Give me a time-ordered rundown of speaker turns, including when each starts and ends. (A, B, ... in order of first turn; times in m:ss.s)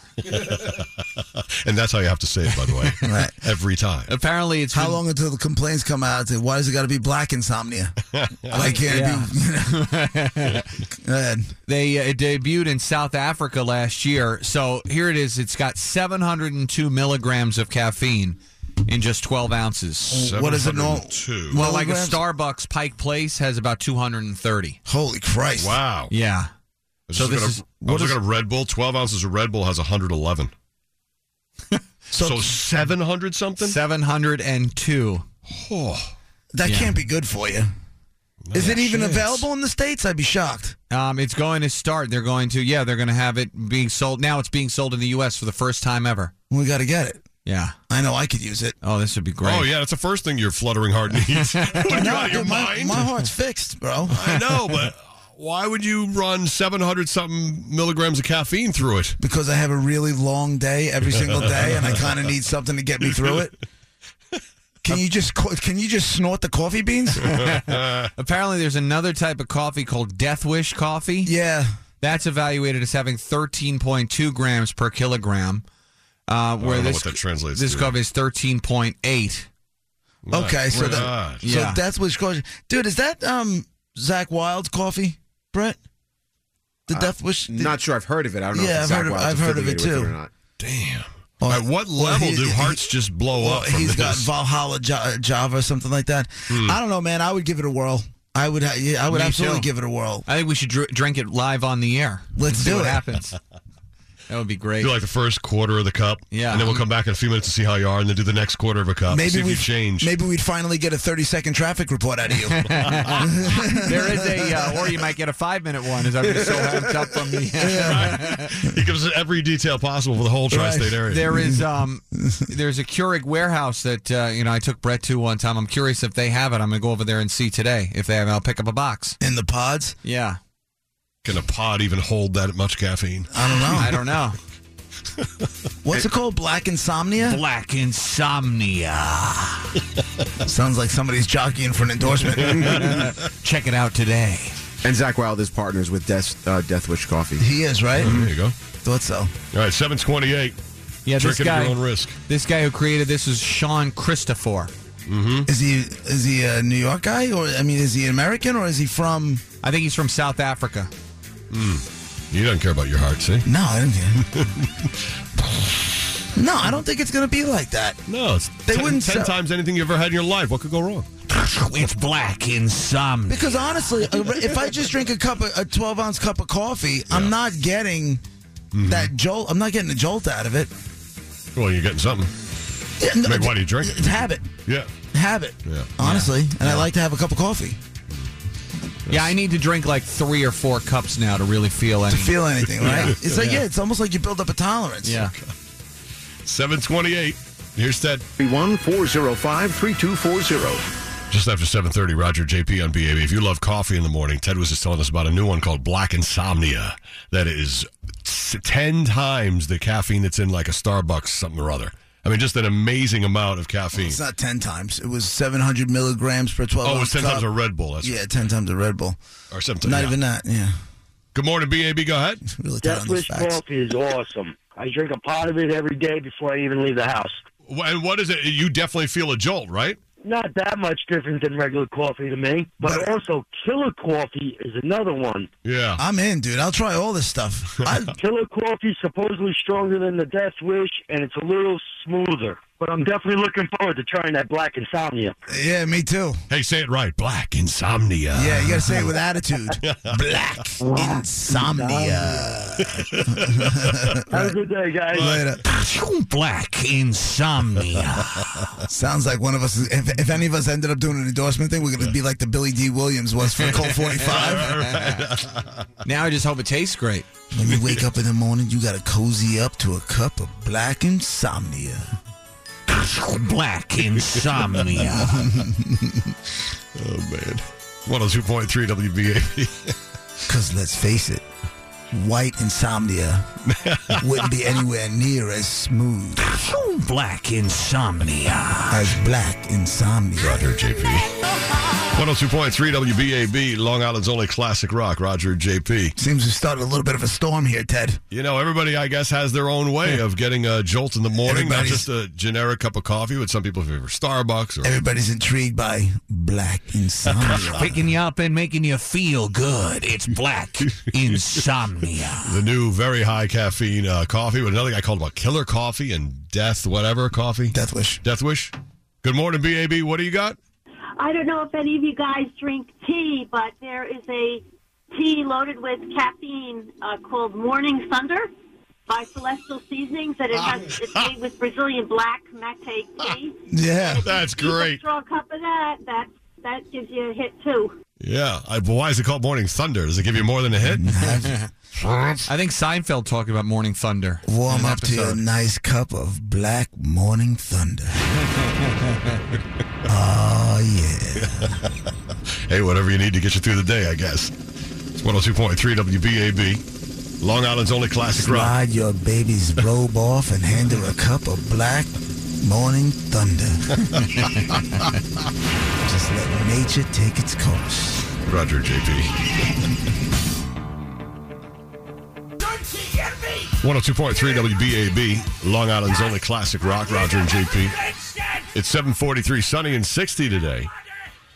0:00.2-0:00.8 A
0:01.6-0:04.1 A
0:02.7-0:03.2 B
0:03.0-0:03.4 C
0:04.1-0:05.0 B
0:04.7-0:08.0 C
0:08.1-0:08.7 A
0:08.5-0:10.0 C
0:08.5-0:10.7 B
0:10.9-0:11.5 C
0:11.7-0:20.3 B
0:20.1-0:22.2 C
0:20.1-0:21.6 A
0:21.5-0:24.8 B
0:24.9-0:25.8 C
0:25.6-0:26.1 A
0:26.1-0:26.5 B
0:27.1-0:30.5 A
0:27.1-0:28.2 B
0:32.1-0:32.5 C
0:32.1-0:33.8 A
0:33.6-0:35.2 B
0:35.5-0:36.1 A
0:36.5-0:37.7 C
0:36.6-0:36.9 B
0:38.4-0:39.4 A
0:38.5-0:40.8 C
0:40.9-0:46.3 B
0:46.5-0:47.2 C
0:47.4-0:47.8 B
0:47.9-0:48.8 C
0:48.8-0:49.7 B
0:49.4-0:53.0 A
0:51.4-0:52.4 B
0:51.9-0:54.3 C
0:54.1-0:59.2 A
0:59.2-1:03.6 C
1:04.8-1:07.3 C
1:07.3-1:11.3 B
1:07.4-1:08.1 A
1:11.2-1:11.7 C
1:12.0-1:15.6 B
1:16.3-1:19.5 B
1:16.6-1:18.0 A
1:20.2-1:21.4 A
1:20.3-1:25.8 C
1:20.8-1:21.8 B
1:26.9-1:27.8 C
1:26.9-1:30.3 D
1:28.5-1:30.1 C
1:30.6-1:34.3 A
1:31.4-1:32.8 C
1:33.4-1:40.2 C
1:36.5-1:36.8 A
1:39.1-1:39.7 B
1:40.2-1:43.4 B
1:42.4-1:43.0 C
1:44.3-1:45.0 B
1:44.8-1:50.1 A
1:46.3-1:46.8 B
1:49.1-1:54.7 C
1:52.6-1:58.5 B
1:57.6-1:58.2 C
1:57.8-2:01.2 A
2:00.5-2:01.6 C
2:01.1-2:09.2 B
2:09.2-2:10.0 C
2:10.0-2:10.4 B
2:11.2-2:13.8 A
2:13.3-2:14.0 C
2:13.7-2:14.4 B
2:15.8-2:17.4 C
2:17.2-2:19.7 B
2:20.4-2:23.1 C
2:22.6-2:24.6 B
2:24.8-2:27.5 D
2:27.4-2:28.2 C
2:28.0-2:28.5 A
2:28.1-2:28.3 D
2:28.8-2:29.3 C
2:29.5-2:30.6 A
2:31.0-2:34.7 B
2:31.2-2:32.2 A
2:35.1-2:35.5 A
2:35.5-2:39.4 C
2:39.6-2:40.9 B
2:41.5-2:43.4 A
2:43.4-2:44.2 C
2:44.3-2:44.9 A
2:46.3-2:48.0 C
2:48.1-2:51.1 A
2:48.7-2:49.3 C
2:51.3-2:54.4 B
2:53.3-2:58.2 C
2:58.7-2:59.1 A
2:58.9-3:00.7 C
3:01.5-3:02.3 A
3:03.0-3:04.5 C
3:03.2-3:04.9 A
3:05.1-3:07.8 C
3:05.7-3:05.9 A
3:06.0-3:06.3 B
3:09.1-3:09.3 A
3:09.1-3:13.6 B
3:12.1-3:15.3 C
3:12.8-3:13.2 A
3:15.0-3:15.3 B
3:16.4-3:18.2 A
3:18.4-3:20.9 D
3:21.3-3:34.2 A
3:33.9-3:37.5 C
3:36.8-3:38.2 A
3:38.0-3:39.2 C
3:39.5-3:40.2 A
3:39.8-3:40.7 C
3:41.3-3:42.4 A
3:42.4-3:43.6 C
3:42.8-3:47.4 E
3:47.7-3:50.0 A
3:50.2-3:55.5 E
3:55.6-3:56.0 A
3:56.0-3:58.1 C
3:58.2-4:05.3 E
4:05.5-4:06.4 C
4:06.5-4:09.0 A
4:08.3-4:14.5 C
4:09.8-4:10.2 A
4:10.8-4:12.5 E
4:12.8-4:14.5 A
4:14.3-4:15.2 E
4:15.1-4:15.5 A
4:15.1-4:15.6 C
4:15.6-4:18.8 B
4:18.9-4:24.8 C
4:24.1-4:25.0 B
4:24.3-4:25.9 A
4:26.0-4:27.3 B
4:27.5-4:32.2 C
4:32.9-4:35.5 B
4:35.2-4:36.3 C
4:37.0-4:40.0 A
4:40.5-4:41.4 C
4:42.1-4:43.5 C
4:43.7-4:44.2 A
4:44.2-4:46.5 C
4:46.4-4:49.1 B
4:48.9-4:50.6 C
4:50.4-4:51.3 A
4:52.1-4:56.2 A
4:56.2-4:58.2 C
4:58.3-5:05.0 A
5:01.4-5:02.1 C
5:04.8-5:08.0 C
5:07.5-5:12.6 B
5:12.4-5:20.6 A
5:17.7-5:18.2 C
5:21.2-5:24.6 F
5:25.2-5:28.5 F
5:29.1-5:33.5 F
5:30.6-5:31.3 A
5:33.7-5:34.2 C
5:34.2-5:35.0 A
5:34.3-5:37.9 F
5:38.2-5:41.3 A
5:40.8-5:41.7 C
5:42.0-5:42.4 A
5:42.5-5:45.4 B
5:44.5-5:48.4 C
5:50.1-5:51.8 C
5:51.4-5:52.0 A
5:52.7-5:54.5 A
5:55.2-5:56.8 A
5:57.4-5:58.7 A
5:58.3-6:03.9 C
6:04.0-6:04.8 A
6:06.0-6:08.3 C
6:08.5-6:09.3 A
6:13.8-6:18.0 A
6:18.7-6:20.9 A